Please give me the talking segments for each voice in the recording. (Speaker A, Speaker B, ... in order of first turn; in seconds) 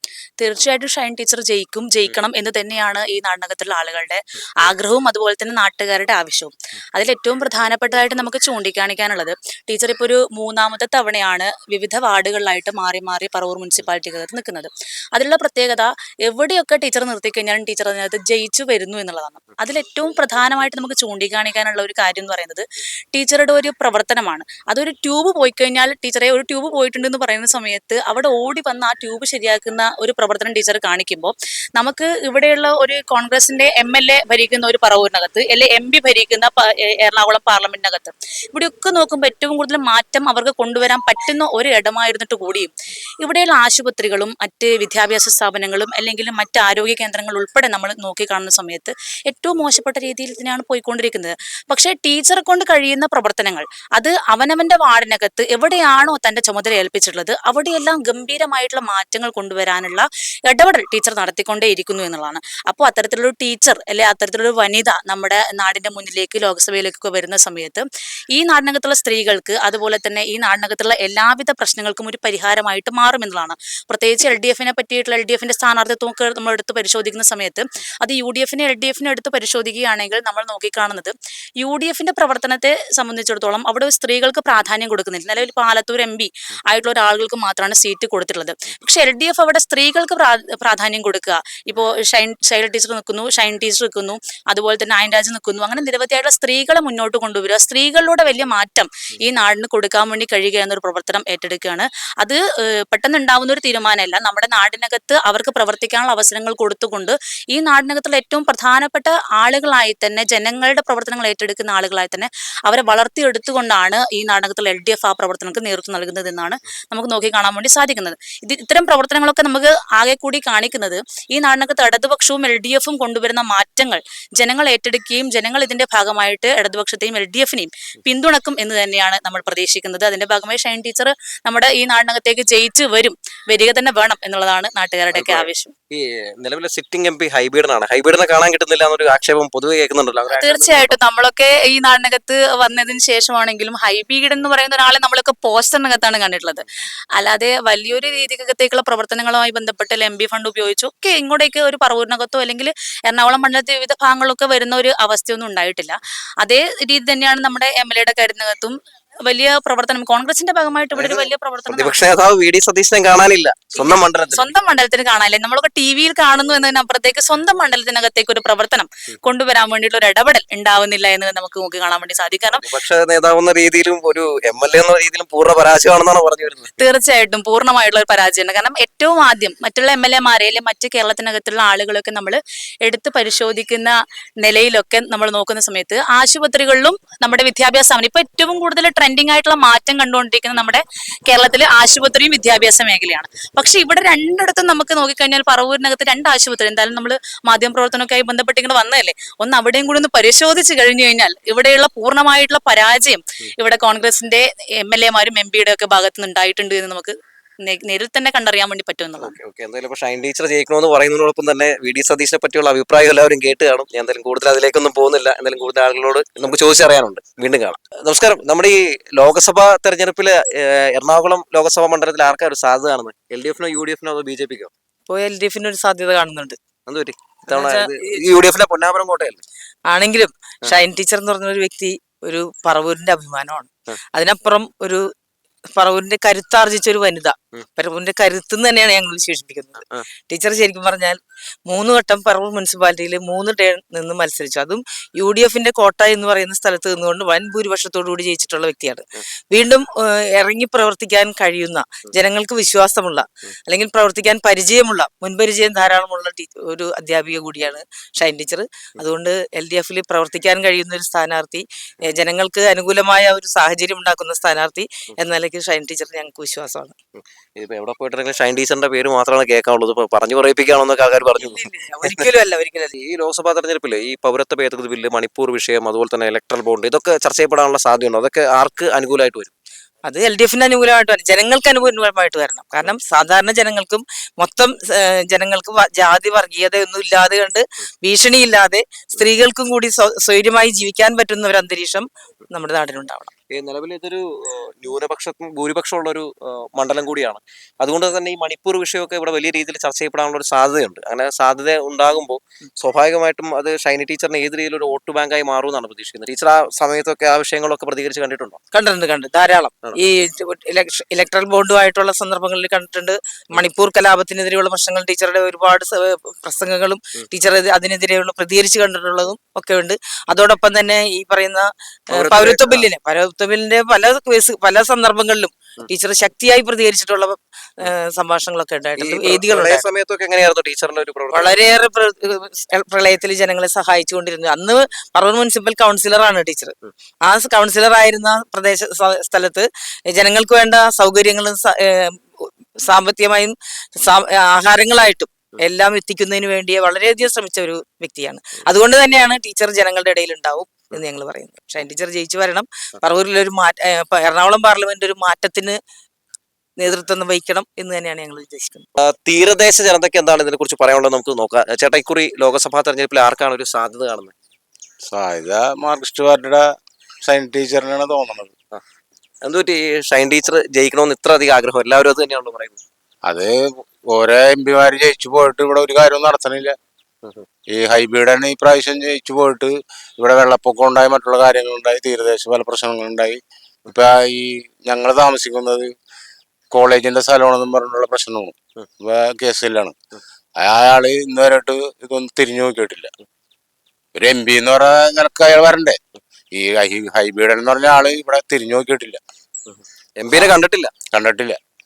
Speaker A: 0.4-42.7, 43.2-102.4, 102.9-135.7, 140.3-146.6, 147.2-158.8, 159.3-162.0, 163.8-172.7, 176.8-207.1, 207.7-209.3
Speaker B: 135.1-140.9, 160.9-164.4, 172.5-176.8, 209.2-224.7, 226.9-229.4, 267.2-272.2, 272.9-279.5, 293.5-308.6, 322.1-322.9, 329.0-331.6, 359.0-364.3, 369.4-372.8, 399.7-400.9
Speaker C: 225.1-226.6, 227.5-227.9, 229.9-235.1, 235.8-266.9, 271.4-272.9, 280.1-293.3, 308.7-329.9, 331.3-355.8, 356.8-358.9
Speaker D: 365.1-366.7, 367.2-368.5, 373.2-376.8, 377.7-385.9, 386.7-390.0, 390.6-393.1, 394.1-396.0, 396.5-399.2, 401.1-401.6